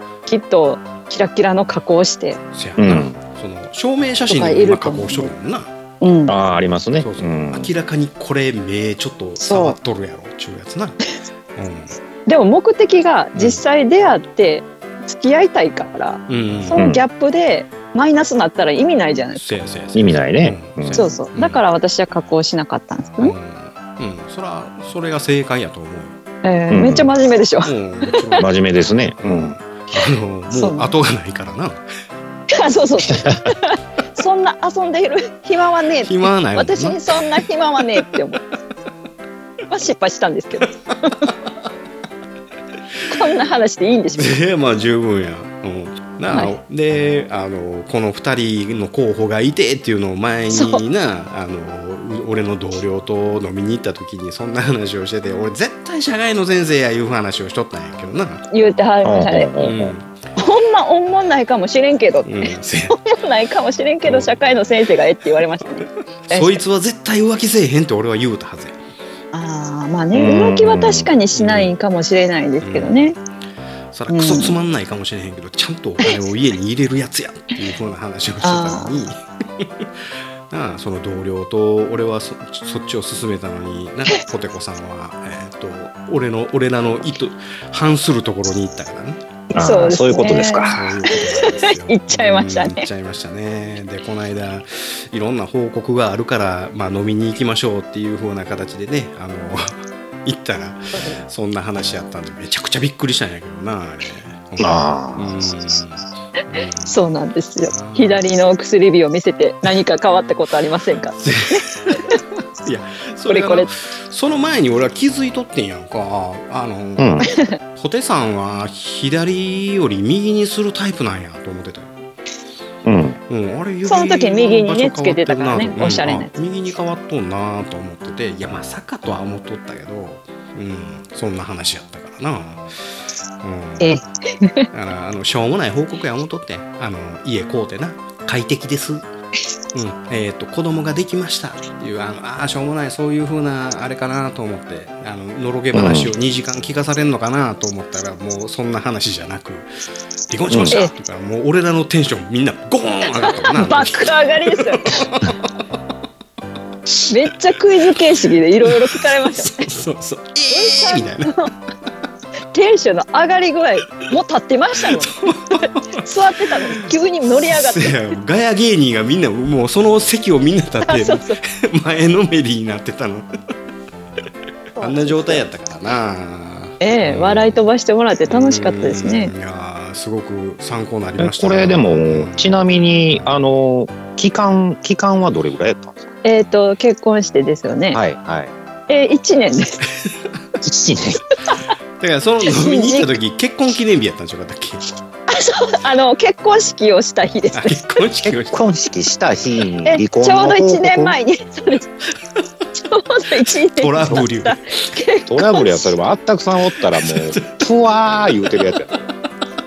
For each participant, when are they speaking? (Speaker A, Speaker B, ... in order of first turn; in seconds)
Speaker A: 0.3-2.4, 4.3-5.3, 6.0-6.3, 9.4-9.8, 12.3-19.5, 20.9-23.3, 26.4-28.4, 30.5-30.9, 32.5-38.4, 39.7-41.1, 43.1-44.3, 50.5-50.8, 58.5-59.5, 60.4-66.6, 69.3-73.2, 74.1-74.6, 78.4-78.9, 89.5-92.8, 106.8-112.0, 113.3-113.7, 117.3-117.5, 123.9-126.3, 133.8-134.7, 153.2-155.1, 157.1-159.7, 160.5-161.5, 162.5-168.1, 170.8-171.4, 174.8-175.4, 176.8-179.3, 186.2-188.0, 188.9-189.8, 192.5-193.2, 195.3-197.8, 199.8-201.9, 202.8-205.9
Speaker B: 2.5-5.7, 7.0-11.0, 11.6-11.9, 13.3-13.6, 16.3-16.8, 19.3-21.6, 23.2-26.1, 27.6-28.5, 29.2-31.9, 36.0-37.0, 44.1-58.4, 59.6-60.1, 62.2-63.0, 64.0-64.4, 66.3-68.8, 71.3-71.7, 72.6-73.2, 73.9-79.8, 80.5-89.2, 90.3-107.0, 107.7-108.2, 111.2-121.9, 123.3-132.7, 133.4-133.9, 134.7-139.1, 139.7-149.7, 150.3-155.4, 158.7-161.3, 165.0-166.1, 166.8-173.3, 174.8-177.6, 178.3-182.5, 192.0-194.9, 197.5-198.6, 203.4-204.6, 207.0-207.6
Speaker C: 2.8-3.1, 6.3-7.7, 16.8-17.0, 19.9-21.1, 26.7-27.1, 28.4-29.6, 59.0-59.9, 70.1-71.1, 89.5-90.9, 104.6-105.6, 117.0-117.3, 122.8-123.2, 145.7-146.1, 150.5-150.8, 181.2-186.1, 187.9-188.5, 190.6-191.2, 198.2-201.2, 205.3-208.9